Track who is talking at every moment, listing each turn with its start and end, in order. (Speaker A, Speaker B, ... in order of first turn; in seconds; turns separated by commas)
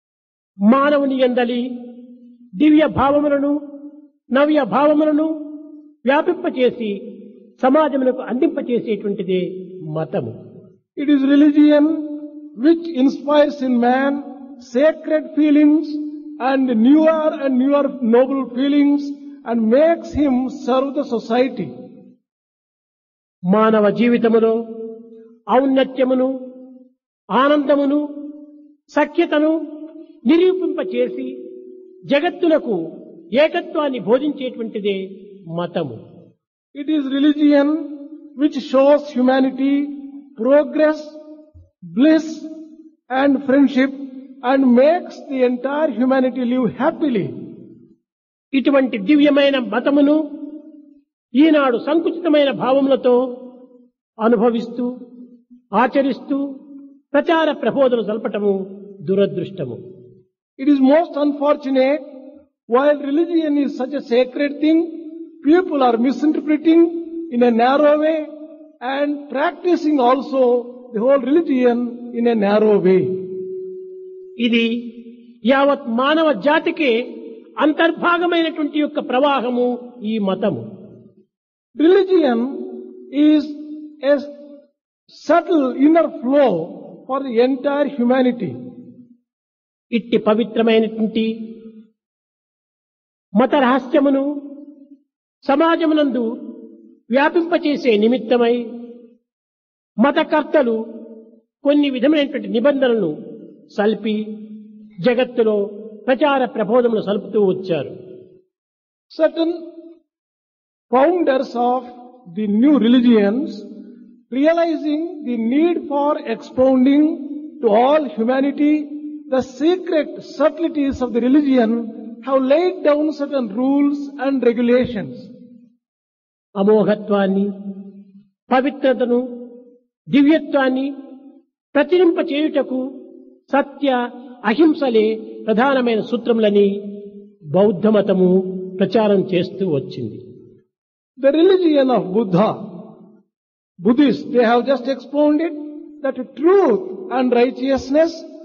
Speaker A: 0.7-1.7, Speaker A: 2.6-3.6, Speaker A: 4.3-5.3, Speaker A: 6.0-7.0, Speaker A: 7.6-10.3, Speaker B: 11.0-21.7, Speaker A: 23.5-24.6, Speaker A: 25.5-26.3, Speaker A: 27.4-28.0, Speaker A: 28.9-29.5, Speaker A: 30.3-31.3, Speaker A: 32.1-32.8, Speaker A: 33.4-35.0, Speaker A: 35.5-36.0, Speaker B: 36.8-37.8, Speaker B: 38.4-41.1, Speaker B: 41.9-42.5, Speaker B: 43.1-47.3, Speaker A: 48.5-50.2, Speaker A: 51.4-53.2, Speaker A: 54.2-54.9, Speaker A: 55.8-56.4, Speaker A: 57.1-59.8, Speaker B: 60.6-62.0, Speaker B: 62.7-68.3, Speaker B: 68.8-73.2, Speaker A: 74.4-74.7, Speaker A: 75.5-77.0, Speaker A: 77.6-80.6, Speaker B: 81.8-82.5, Speaker B: 83.1-84.3, Speaker B: 85.1-88.5, Speaker A: 89.9-91.3, Speaker A: 93.4-94.2, Speaker A: 95.5-96.3, Speaker A: 97.1-98.6, Speaker A: 100.0-100.8, Speaker A: 101.6-103.1, Speaker A: 103.7-104.2, Speaker A: 105.0-107.9, Speaker B: 109.1-109.6, Speaker B: 110.9-113.7, Speaker B: 114.3-125.3, Speaker A: 126.6-127.5, Speaker A: 128.5-129.2, Speaker A: 130.1-130.9, Speaker A: 131.8-132.8, Speaker A: 133.5-136.7, Speaker A: 137.6-140.2, Speaker B: 141.2-142.6, Speaker B: 143.8-148.2